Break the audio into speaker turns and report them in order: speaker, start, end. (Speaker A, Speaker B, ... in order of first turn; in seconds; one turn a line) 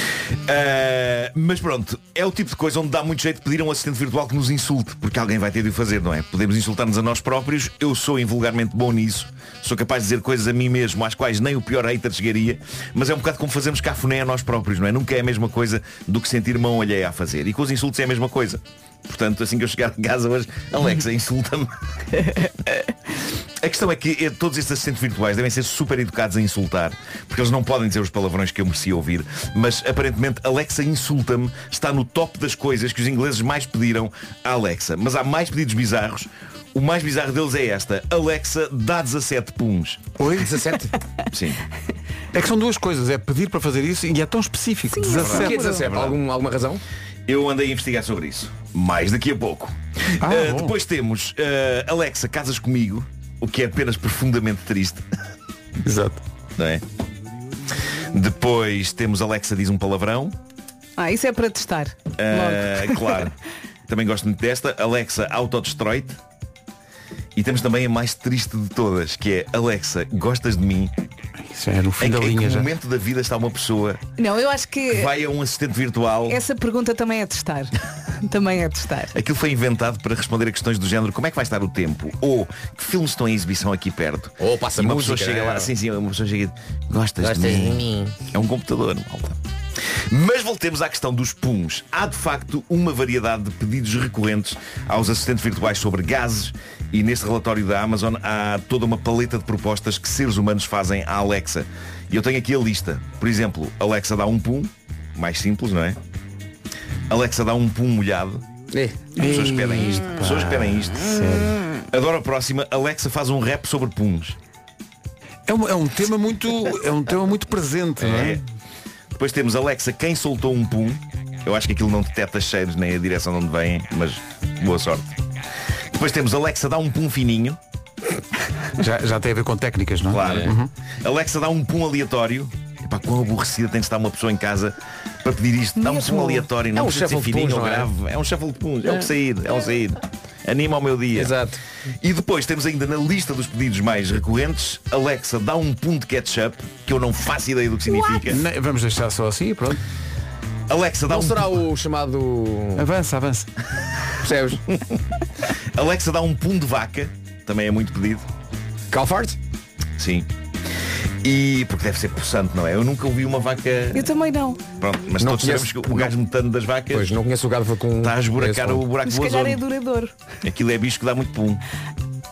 Speaker A: 0.5-21.7
Speaker A: 23.6-40.1
Speaker B: 40.2-40.6
Speaker C: 40.3-40.9
Speaker A: 41.3-41.6
Speaker B: 42.3-45.7
Speaker D: 44.9-45.9
Speaker C: 45.2-46.8
Speaker A: 45.2-46.2
Speaker A: 47.3-55.0
Speaker B: 50.2-50.8
Speaker B: 55.8-56.2
Speaker A: 56.6-56.8
Speaker A: 58.1-60.4
Speaker D: 61.0-63.2
Speaker A: 62.2-63.3
Speaker A: 63.9-66.2
Speaker A: 67.4-70.9
Speaker B: 71.4-72.7
Speaker A: 72.0-74.0
Speaker D: 74.2-75.1
Speaker A: 74.9-76.4
Speaker D: 76.3-79.1
Speaker A: 79.1-89.4
Speaker C: 84.4-85.7
Speaker C: 87.2-88.2
Speaker A: 90.1-106.0
Speaker A: 107.1-108.4
Speaker C: 108.7-109.1
Speaker B: 109.2-111.6
Speaker A: 109.2-111.1
Speaker A: 111.9-114.4
Speaker B: 115.5-118.4
Speaker A: 118.0-118.4
Speaker A: 119.2-125.2
Speaker A: 125.9-127.6
Speaker B: 128.8-130.7
Speaker A: 130.1-141.4
Speaker C: 130.2-130.5
Speaker D: 135.8-136.5
Speaker C: 136.7-137.9
Speaker C: 141.1-141.6
Speaker A: 142.0-148.4
Speaker B: 148.3-149.8
Speaker A: 150.7-151.6
Speaker C: 151.1-152.9
Speaker B: 152.8-153.5
Speaker C: 154.2-154.6
Speaker A: 155.8-158.3
Speaker C: 158.9-159.4
Speaker A: 160.0-160.3
Speaker A: 161.2-164.1
Speaker D: 163.9-164.6
Speaker A: 164.8-167.2
Speaker C: 165.2-166.1
Speaker C: 166.9-168.9
Speaker A: 168.0-169.6
Speaker D: 169.1-170.2
Speaker A: 170.4-171.6